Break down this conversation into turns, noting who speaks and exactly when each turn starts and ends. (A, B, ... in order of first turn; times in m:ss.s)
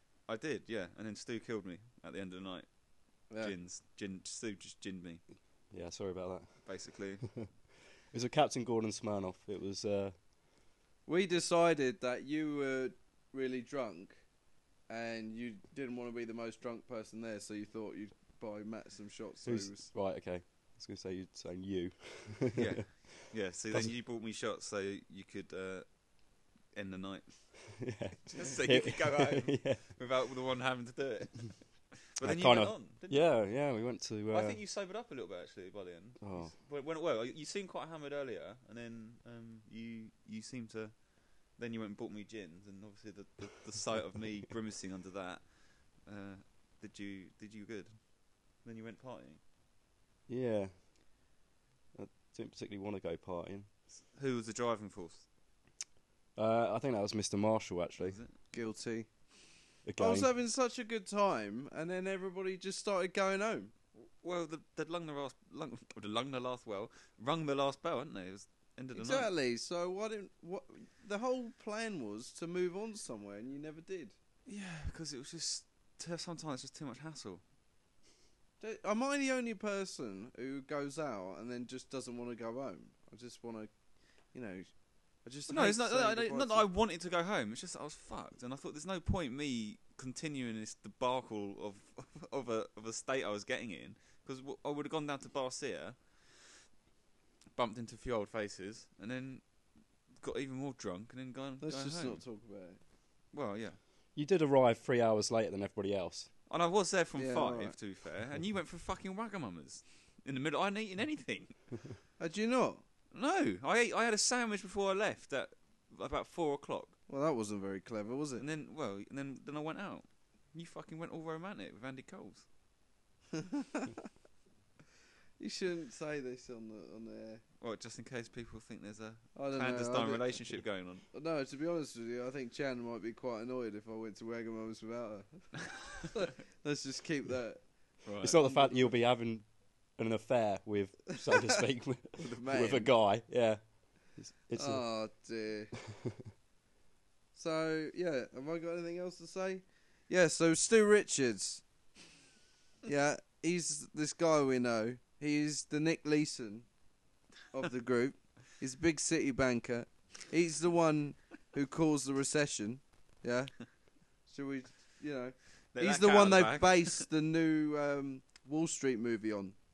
0:00.3-0:02.7 A
0:03.3-0:03.5 B
0:03.4-0:05.2 A
0:05.7-0:06.7 C
0:06.6-0:07.4 A
0:08.1-0:10.2 C
0:11.0-0:14.2 B
0:14.9-0:19.9 B
0:19.4-0:23.0 C
0:22.5-0:25.9 A
0:26.7-0:27.3 A
0:27.8-0:29.8 C
0:28.3-0:33.3 A
0:32.2-0:34.6 C
0:34.3-0:40.9 A
0:36.2-0:36.5 C
0:41.6-0:45.4 A
0:46.0-0:47.9 A
0:48.6-0:49.4 A
0:50.3-0:51.0 C
0:51.9-0:53.7 C
0:54.0-0:55.2 A
0:56.4-0:58.2 C
0:58.0-0:58.3 A
0:58.5-0:59.1 B
0:59.8-1:00.3 C
1:00.0-1:03.7 B
1:03.9-1:09.3 A
1:08.9-1:14.1 B
1:14.5-1:17.4 A
1:18.6-1:23.7 B
1:24.3-1:24.7 B
1:25.2-1:26.7 B
1:25.5-1:36.0 A
1:37.5-1:39.4 A
1:40.2-1:42.2 A
1:41.6-1:42.8 B
1:43.3-1:43.8 A
1:44.1-1:46.3 C
1:46.5-1:51.8 A
1:47.2-1:47.8 B
1:52.2-1:52.8 B
1:53.1-1:57.0 A
1:57.1-1:58.4 B
1:58.4-2:02.4 A
2:03.3-2:04.0 B
2:05.4-2:07.4 B
2:07.6-2:11.0 A
2:09.4-2:10.4 B
2:11.1-2:17.6 B
2:18.0-2:18.4 A
2:18.2-2:24.9 C
2:18.4-2:18.8 B
2:22.3-2:22.9 B
2:24.5-2:25.7 B
2:25.8-2:26.2 C
2:27.3-2:31.6 B
2:32.8-2:36.7 B
2:37.5-2:43.5 B
2:44.3-2:49.6 B
2:45.7-2:47.0 A